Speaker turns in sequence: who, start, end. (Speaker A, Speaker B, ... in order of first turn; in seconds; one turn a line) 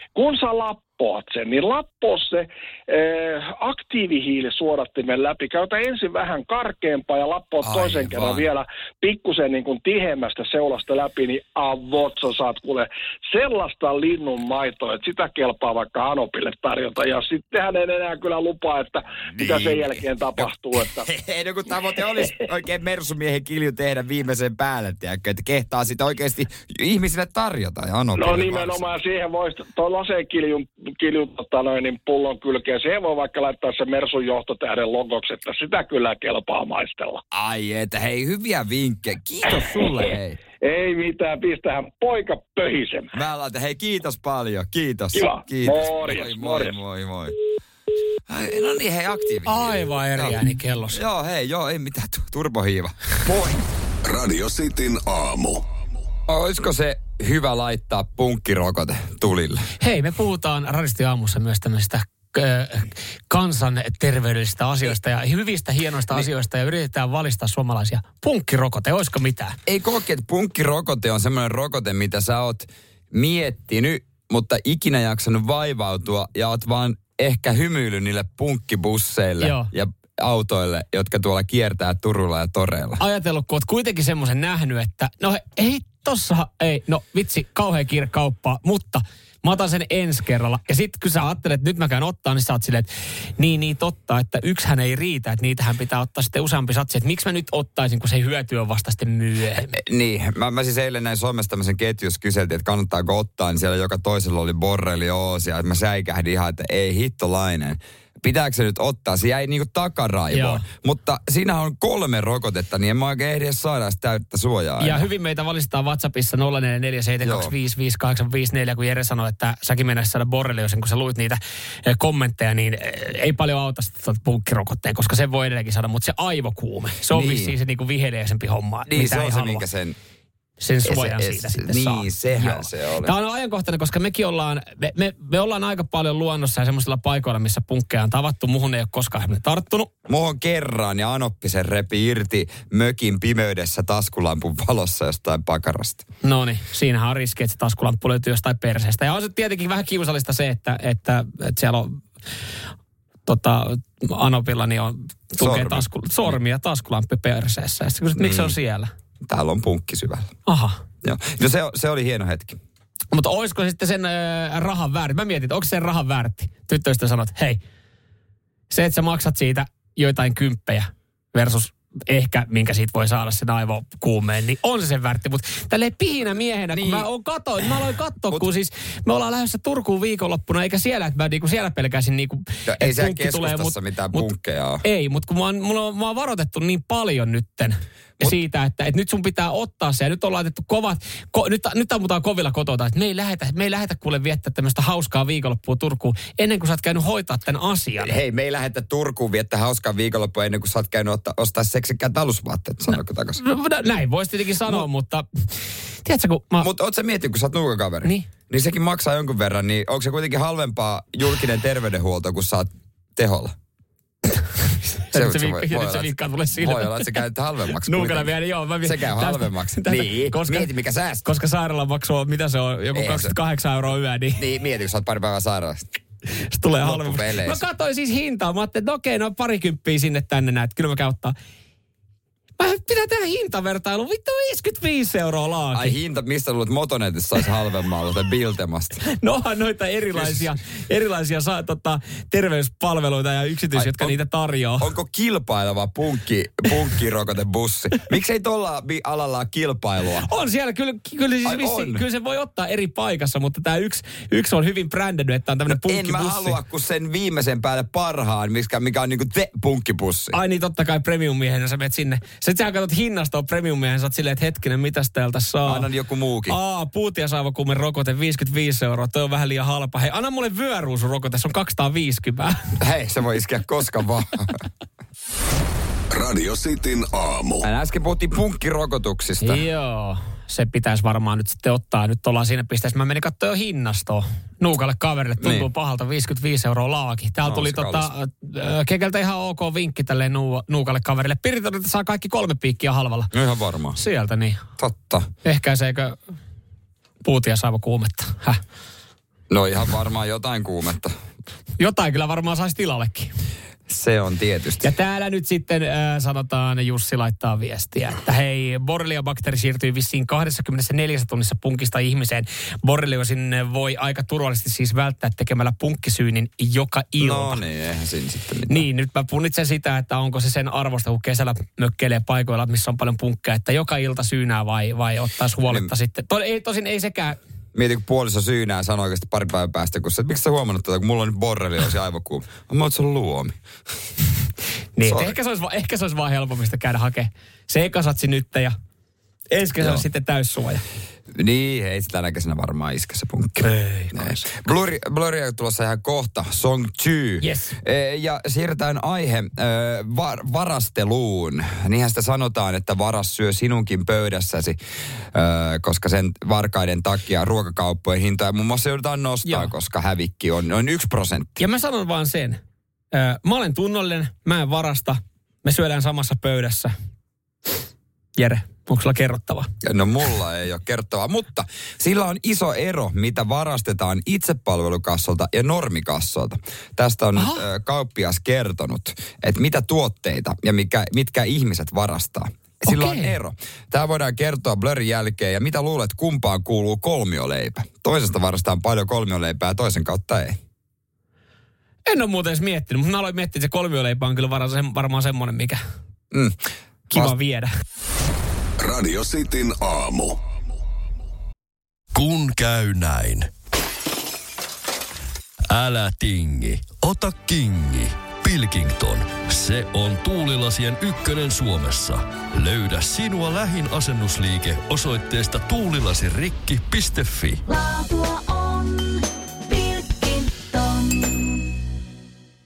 Speaker A: 0.1-21.1
Speaker B: 7.6-8.5
Speaker B: 19.4-28.9
Speaker A: 28.1-37.2
Speaker B: 37.3-40.4
Speaker A: 39.5-43.1
Speaker B: 43.1-47.4
Speaker A: 45.1-46.8
Speaker B: 48.3-53.6
Speaker C: 49.5-51.0
Speaker D: 54.0-55.6
Speaker B: 56.3-59.7
Speaker C: 59.8-69.6
Speaker B: 69.7-83.0
Speaker C: 79.4-79.7
Speaker C: 83.0-99.7
Speaker B: 99.7-115.1
Speaker C: 110.3-110.6
Speaker C: 114.8-129.6
Speaker B: 117.2-117.5
Speaker B: 127.1-127.5
Speaker B: 128.9-130.0
Speaker C: 130.6-139.9
Speaker B: 130.8-133.1
Speaker B: 140.1-146.1
Speaker C: 146.2-152.0
Speaker C: 153.3-158.9
Speaker B: 155.4-156.4
Speaker B: 158.2-158.6
Speaker B: 159.2-160.3
Speaker C: 160.5-160.8
Speaker B: 161.0-162.6
Speaker C: 163.1-167.6
Speaker C: 168.7-184.3
Speaker B: 176.7-177.1
Speaker B: 182.7-184.8
Speaker C: 184.8-198.2
Speaker B: 198.0-203.4
Speaker C: 203.4-206.7
Speaker B: 206.6-213.6
Speaker C: 214.9-217.1
Speaker B: 215.1-221.2
Speaker C: 217.9-220.7
Speaker C: 221.2-224.4
Speaker B: 222.9-223.3
Speaker B: 224.4-225.9
Speaker C: 226.5-231.3
Speaker B: 226.8-227.6
Speaker C: 232.6-236.0
Speaker B: 235.7-239.0
Speaker C: 239.1-244.9
Speaker B: 240.1-240.5
Speaker B: 243.7-244.2
Speaker B: 244.8-250.3
Speaker C: 250.2-256.6
Speaker B: 251.4-252.0
Speaker B: 255.7-260.4
Speaker C: 260.3-265.9
Speaker B: 265.6-266.6
Speaker C: 266.5-272.8
Speaker B: 272.8-274.6
Speaker D: 276.1-277.6
Speaker B: 277.6-279.6
Speaker C: 279.4-293.3
Speaker B: 285.4-285.7
Speaker B: 287.4-288.1
Speaker B: 293.3-294.0
Speaker C: 294.0-294.6
Speaker B: 294.8-295.3
Speaker C: 295.4-296.2
Speaker C: 297.2-298.6
Speaker B: 299.5-301.1
Speaker C: 301.8-303.3
Speaker B: 303.9-304.9
Speaker C: 304.8-317.6
Speaker B: 317.2-318.9
Speaker C: 318.7-327.4
Speaker B: 327.8-333.6
Speaker C: 335.0-338.8
Speaker B: 335.0-335.4
Speaker C: 339.5-340.8
Speaker B: 341.3-354.8
Speaker C: 343.6-344.6
Speaker C: 347.4-347.8
Speaker B: 355.3-361.6
Speaker C: 359.4-359.7
Speaker C: 361.6-362.6
Speaker C: 363.1-366.9
Speaker C: 368.4-369.7
Speaker B: 369.8-390.6
Speaker C: 377.4-377.6
Speaker C: 382.9-383.4
Speaker C: 392.1-395.8
Speaker B: 396.3-396.6
Speaker C: 397.1-397.7
Speaker D: 398.8-400.4
Speaker E: 402.1-403.5
Speaker E: 405.7-417.6